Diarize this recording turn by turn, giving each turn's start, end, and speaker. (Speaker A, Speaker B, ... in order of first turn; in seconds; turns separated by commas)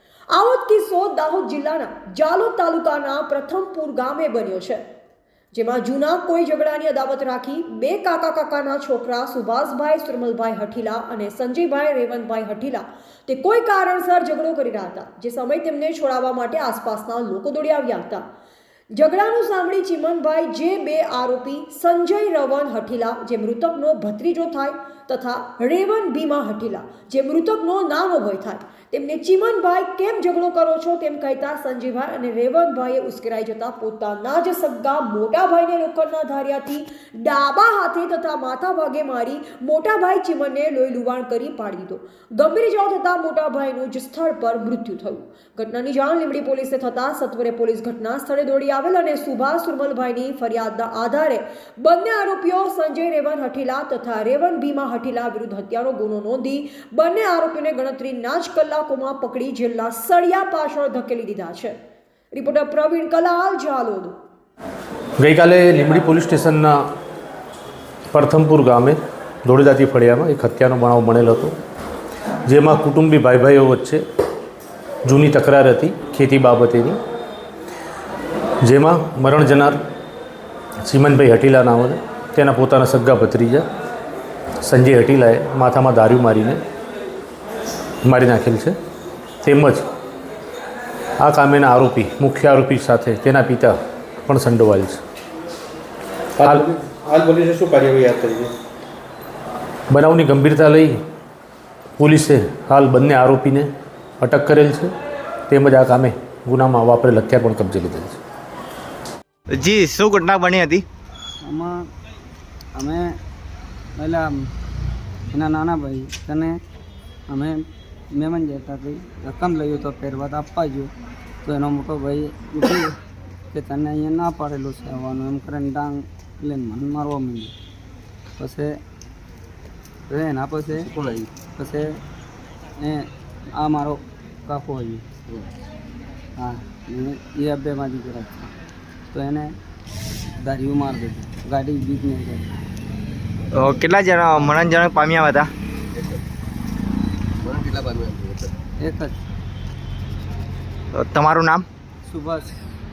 Speaker A: 0.3-4.8, Speaker A: 5.5-18.2, Speaker A: 18.9-61.8, Speaker A: 62.3-64.2, Speaker B: 65.2-66.8, Speaker B: 68.1-71.5, Speaker B: 72.5-74.0, Speaker B: 75.0-77.0, Speaker B: 78.6-79.8, Speaker B: 80.8-83.7, Speaker B: 84.6-86.6, Speaker B: 88.0-88.7, Speaker B: 89.4-89.8, Speaker B: 91.2-93.8, Speaker B: 94.3-95.0, Speaker C: 96.4-98.5, Speaker B: 96.4-96.7, Speaker B: 99.9-101.0, Speaker B: 102.0-104.9, Speaker B: 105.5-108.2, Speaker D: 109.5-110.8, Speaker E: 111.4-111.8, Speaker E: 112.8-113.1, Speaker E: 114.0-114.3, Speaker E: 115.3-116.6, Speaker E: 117.3-120.9, Speaker E: 121.4-123.0, Speaker E: 123.5-127.5, Speaker E: 128.4-128.7, Speaker E: 130.1-130.9, Speaker C: 130.7-131.3, Speaker E: 131.5-131.9, Speaker E: 132.8-135.0, Speaker E: 136.4-138.5, Speaker E: 139.1-139.5, Speaker E: 140.4-142.5, Speaker D: 143.5-145.5, Speaker C: 145.9-146.2, Speaker C: 147.4-148.5, Speaker E: 148.8-149.2, Speaker D: 150.9-151.6, Speaker E: 152.1-152.5